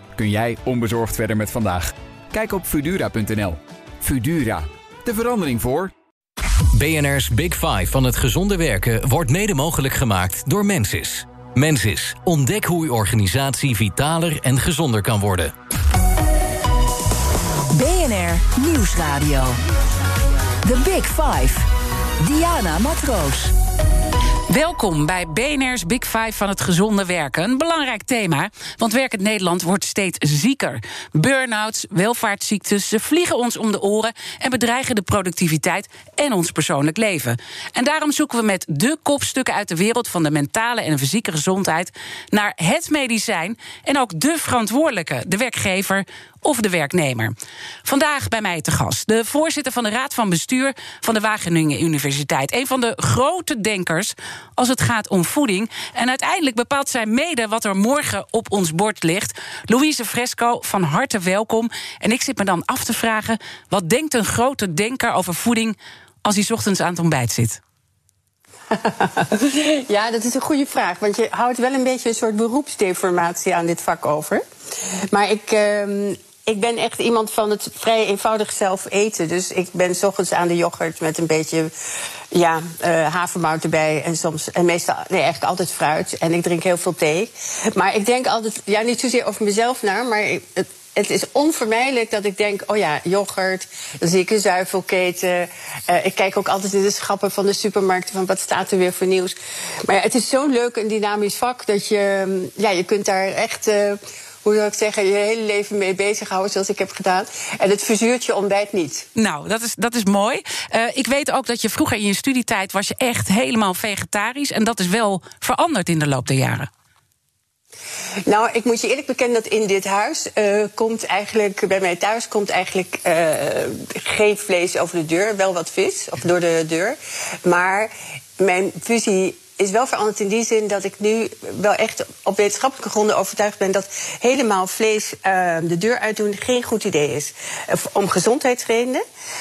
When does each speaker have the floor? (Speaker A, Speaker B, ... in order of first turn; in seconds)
Speaker A: 0.1-5.9
Speaker B: 6.8-15.5
Speaker C: 17.7-19.6, 20.6-21.7, 22.2-23.5
Speaker D: 24.5-47.3, 47.8-67.6, 109.2-116.7
Speaker E: 68.7-109.1, 118.2-139.0